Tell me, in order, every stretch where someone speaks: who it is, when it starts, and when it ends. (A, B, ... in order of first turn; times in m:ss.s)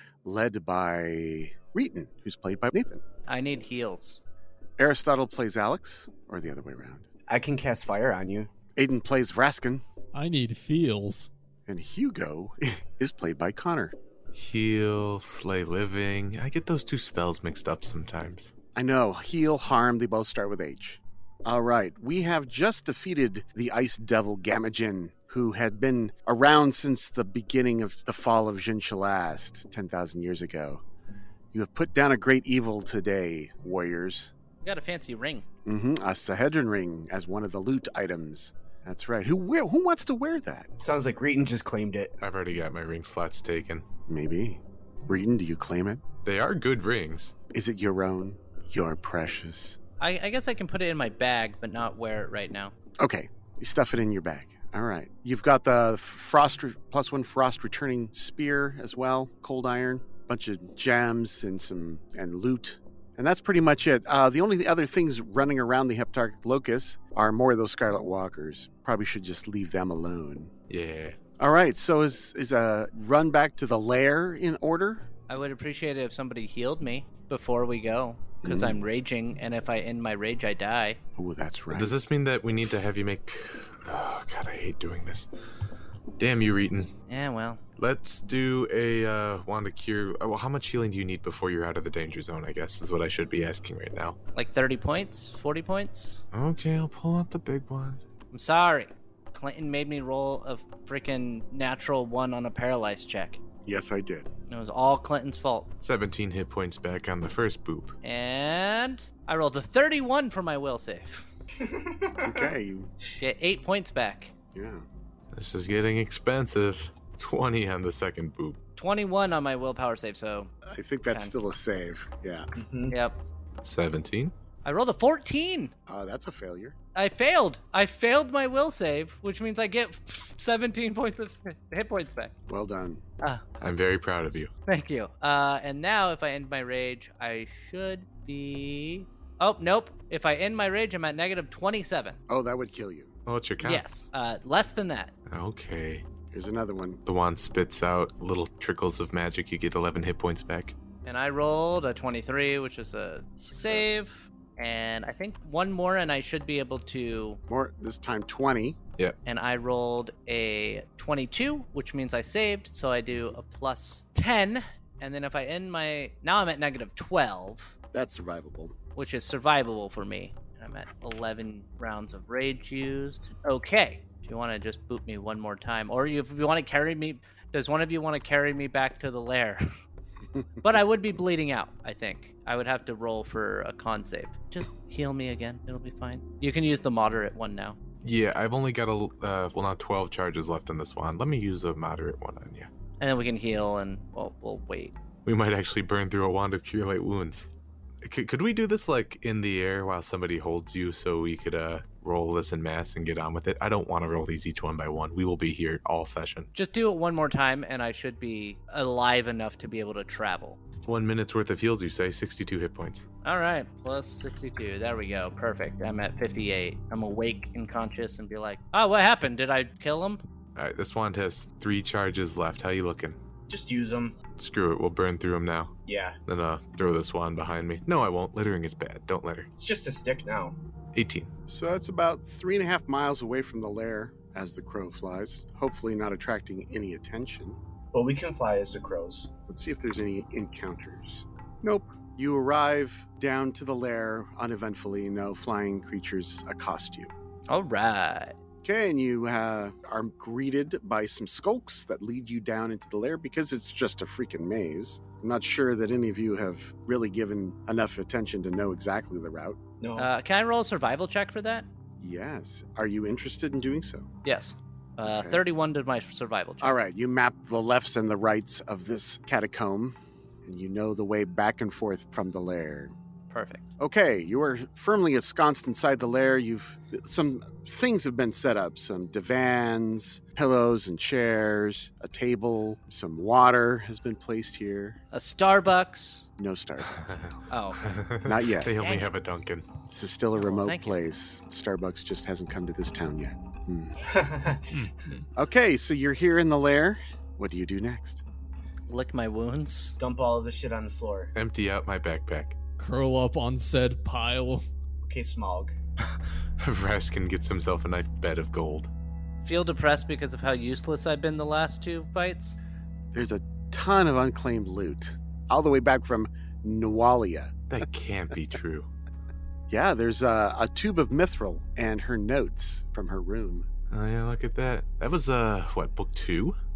0:00.2-0:03.0 A
0:03.3-0:04.2 B
0:04.8-0:07.1 A
0:07.3-0:08.5 C
0:08.8-0:09.8 A
0:10.1-0:11.3 D
0:11.7-0:14.0 A
0:14.3-0:18.5 E
0:18.8-0:30.8 A
0:31.5-0:34.3 A
0:34.6-0:35.4 B
0:35.7-0:40.7 A
0:40.8-0:42.1 C
0:42.2-0:43.8 E
0:44.1-0:46.0 A
0:46.2-0:47.4 E
0:47.5-0:49.8 A
0:50.0-0:52.7 B
0:53.0-1:10.5 A
1:10.7-1:11.2 E
1:11.4-1:15.1 A
1:15.3-1:21.0 B
1:18.4-1:18.8 A
1:21.2-1:21.9 A
1:21.7-1:25.3 E
1:26.2-1:26.9 E
1:27.1-1:27.6 B
1:27.8-1:34.2 E
1:34.4-1:36.2 B
1:36.3-1:38.0 E
1:38.3-1:43.4 B
1:43.6-1:44.3 A
1:44.5-1:45.7 B
1:45.8-1:48.0 E
1:48.0-1:51.3 B
1:51.7-1:52.5 C
1:52.2-1:52.9 A
1:53.2-1:54.3 B
1:54.5-1:54.8 A
1:55.3-1:58.6 E
1:58.8-2:00.5 B
2:00.7-2:02.5 A
2:02.6-2:03.0 C
2:02.9-2:03.2 B
2:03.6-2:04.3 E
2:04.6-2:05.7 B
2:05.9-2:06.8 A
2:07.0-2:12.3 B
2:12.5-2:13.0 A
2:13.6-2:14.5 E
2:14.7-2:22.2 B
2:22.3-2:23.1 A
2:23.3-2:23.8 E
2:23.6-2:25.1 B
2:25.3-2:26.1 E
2:26.3-2:27.0 A
2:27.0-2:30.8 E
2:31.0-2:37.4 B
2:33.4-2:34.0 A
2:37.5-2:38.8 A
2:39.2-2:47.8 B
2:47.9-2:48.8 A
2:49.0-2:59.7 B
3:00.6-3:07.8 B
3:08.0-3:12.7 E
3:13.0-3:14.9 B
3:15.3-3:17.5 E
3:18.0-3:26.5 E
3:26.5-3:30.6 B
3:30.8-3:33.1 E
3:33.2-3:40.2 B
3:40.6-3:43.2 E
3:43.5-3:44.2 C
3:44.4-3:45.7 E
3:45.9-3:46.2 C
3:46.3-3:49.5 E
3:49.6-3:50.6 C
3:50.9-3:51.3 E
3:51.5-3:57.6 A
3:57.9-3:59.3 C
3:59.5-4:07.1 A
4:07.5-4:08.4 B
4:08.6-4:19.6 A
4:19.8-4:20.1 C
4:20.0-4:21.7 B
4:22.0-4:24.1 A
4:24.2-4:26.8 B
4:25.0-4:25.4 A
4:26.6-4:32.9 A
4:33.3-4:33.7 B
4:33.8-4:45.0 A
4:45.1-4:46.3 B
4:46.4-4:47.3 A
4:47.5-4:47.9 B
4:47.8-4:49.8 E
4:48.2-4:48.7 A
4:48.7-4:49.1 B
4:49.9-4:54.1 A
4:50.4-4:51.1 B
4:54.0-4:54.8 C
4:54.7-4:55.3 D
4:55.4-4:58.2 A
4:58.9-5:00.0 B
5:00.0-5:01.3 C
5:01.3-5:02.6 E
5:02.8-5:04.6 D
5:05.0-5:05.8 C
5:06.6-5:08.9 E
5:09.4-5:12.6 B
5:13.1-5:17.6 A
5:17.7-5:18.9 E
5:19.7-5:23.7 A
5:23.9-5:26.6 E